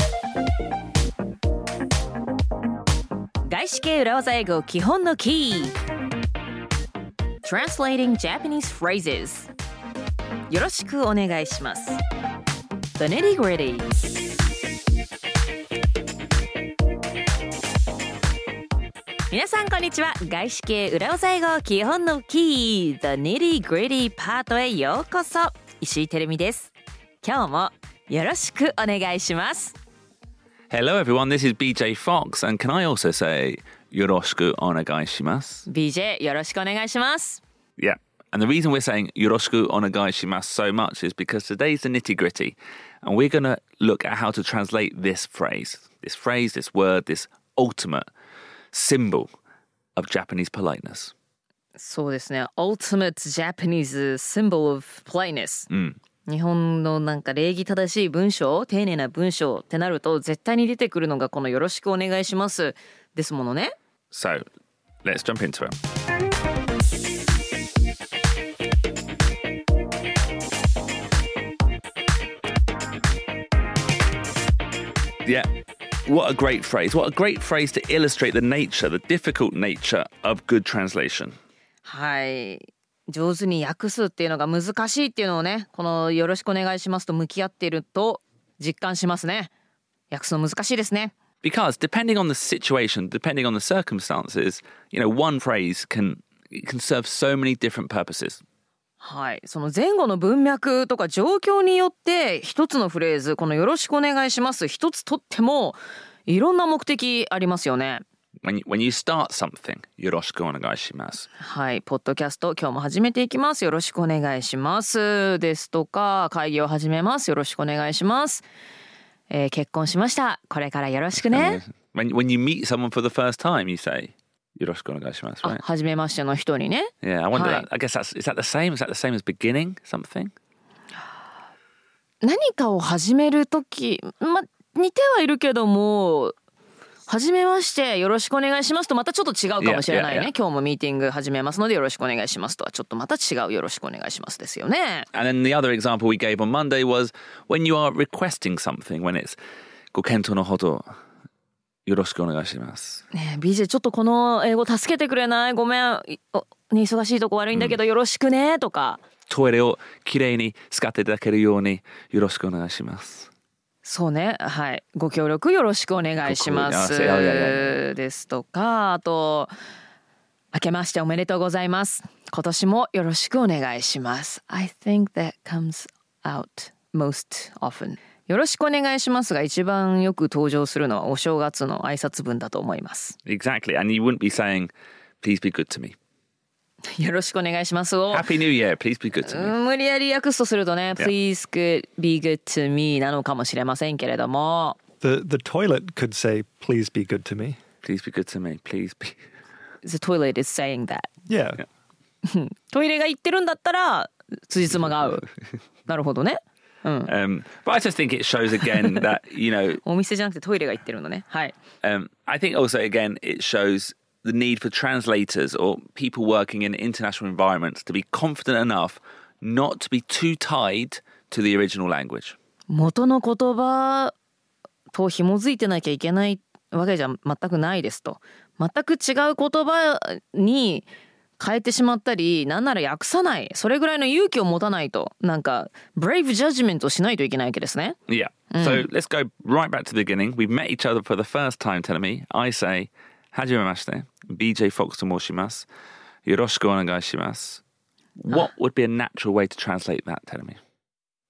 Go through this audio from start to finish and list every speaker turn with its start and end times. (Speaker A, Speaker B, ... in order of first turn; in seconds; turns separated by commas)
Speaker A: 3.5-5.8, Speaker A: 7.4-9.5, Speaker A: 10.5-12.0, Speaker A: 13.0-13.9, Speaker A: 19.3-26.7, Speaker A: 27.2-29.8, Speaker B: 30.7-35.7, Speaker A: 35.7-37.4, Speaker B: 37.8-48.1, Speaker B: 48.7-49.3, Speaker B: 50.0-51.1, Speaker A: 51.8-55.7, Speaker B: 55.7-56.0, Speaker A: 56.3-63.7, Speaker B: 64.1-64.5, Speaker B: 65.0-65.8, Speaker B: 76.1-81.4, Speaker A: 81.8-89.5, Speaker A: 90.1-91.1, Speaker B: 91.4-98.4, Speaker A: 99.0-108.0, Speaker B: 108.4-111.3, Speaker A: 111.4-118.5, Speaker A: 119.3-121.6, Speaker B: 121.3-125.6, Speaker A: 125.4-127.7, Speaker B: 127.0-130.3, Speaker A: 132.2-136.3, Speaker A: 137.1-145.1, Speaker B: 139.6-140.3, Speaker B: 145.1-149.4, Speaker B: 149.9-150.9, Speaker B: 151.9-153.0, Speaker A: 153.1-159.0, Speaker B: 159.3-163.3, Speaker A: 163.8-169.5, Speaker B: 166.2-167.8, Speaker A: 170.5-183.2, Speaker B: 183.2-186.0, Speaker A: 186.9-188.3, Speaker B: 188.1-189.5, Speaker A: 189.2-194.8, Speaker C: 195.0-197.6, Speaker B: 197.8-199.2, Speaker A: 199.8-201.1, Speaker C: 201.3-201.6, Speaker A: 202.2-205.3, Speaker A: 205.9-207.1, Speaker B: 207.1-209.8, Speaker A: 209.8-211.6, Speaker B: 211.8-222.4, Speaker A: 222.7-224.1, Speaker A: 224.9-230.9, Speaker A: 231.4-238.0, Speaker B: 238.1-245.7, Speaker A: 238.5-238.9, Speaker B: 246.2-247.6, Speaker B: 248.2-250.6